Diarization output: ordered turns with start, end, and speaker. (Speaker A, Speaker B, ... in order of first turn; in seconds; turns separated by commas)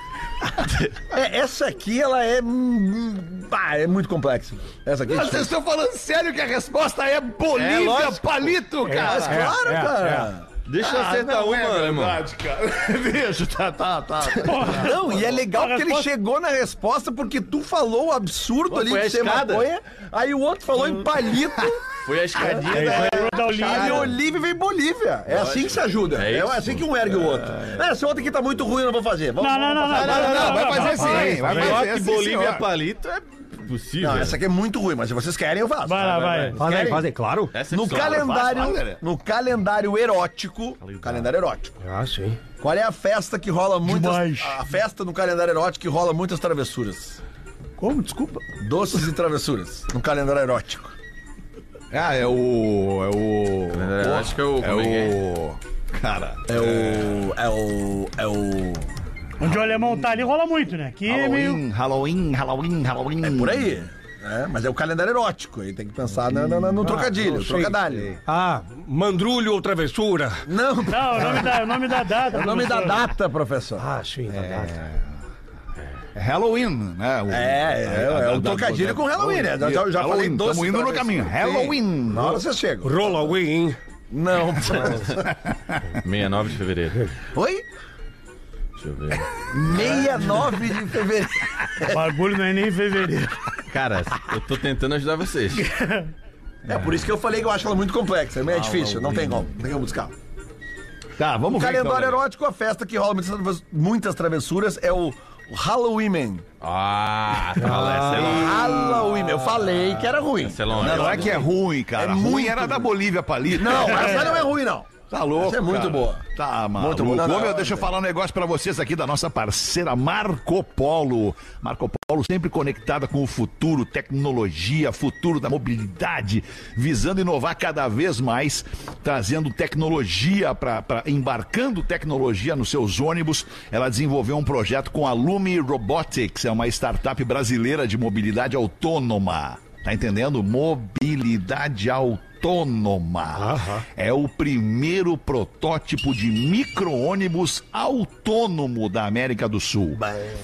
Speaker A: 0.5-1.0, Speaker B: 1.1-5.5, Speaker C: 5.1-9.6, Speaker A: 7.5-8.4, Speaker D: 8.9-10.3, Speaker B: 8.9-10.5, Speaker A: 10.7-12.2, Speaker C: 10.8-15.0, Speaker E: 14.4-16.1, Speaker B: 14.7-21.8, Speaker A: 18.7-19.7, Speaker A: 22.0-24.1, Speaker B: 22.3-31.7, Speaker D: 22.7-23.1, Speaker E: 22.8-24.1, Speaker A: 25.3-26.9, Speaker E: 29.4-31.8, Speaker C: 29.9-32.7, Speaker A: 30.1-34.4, Speaker D: 31.4-31.8, Speaker B: 34.0-37.1, Speaker E: 35.9-36.6, Speaker A: 36.1-36.5, Speaker D: 36.6-37.5, Speaker A: 37.5-38.6, Speaker B: 37.6-41.7, Speaker C: 37.8-39.0, Speaker A: 40.8-41.3, Speaker D: 41.8-42.4, Speaker B: 42.6-47.2, Speaker E: 43.9-44.6, Speaker E: 47.8-48.4, Speaker B: 48.6-51.0, Speaker C: 51.9-57.2, Speaker A: 53.7-55.2, Speaker B: 56.5-58.9, Speaker E: 59.4-61.6, Speaker C: 59.4-59.8, Speaker C: 61.1-63.8, Speaker B: 63.2-68.2, Speaker D: 66.5-70.4, Speaker B: 70.5-71.7, Speaker E: 70.9-73.1, Speaker B: 72.2-73.8, Speaker D: 73.8-74.8, Speaker C: 74.3-75.0, Speaker C: 76.2-82.4, Speaker B: 77.3-83.0, Speaker D: 82.8-83.8, Speaker B: 84.1-85.2, Speaker C: 85.2-86.0, Speaker A: 86.0-87.1, Speaker B: 87.3-87.7, Speaker A: 88.8-89.3, Speaker B: 89.5-92.0, Speaker E: 91.9-93.4, Speaker A: 93.7-95.7, Speaker E: 95.6-96.1, Speaker B: 96.7-100.1, Speaker C: 96.7-96.9, Speaker C: 98.5-99.5, Speaker C: 101.2-102.2, Speaker B: 101.5-106.5, Speaker A: 106.6-111.5, Speaker D: 107.6-108.4, Speaker C: 108.1-108.6, Speaker B: 108.1-112.9, Speaker C: 110.8-114.5, Speaker B: 113.5-116.2, Speaker C: 115.1-150.1, Speaker B: 116.8-117.9, Speaker D: 143.3-143.8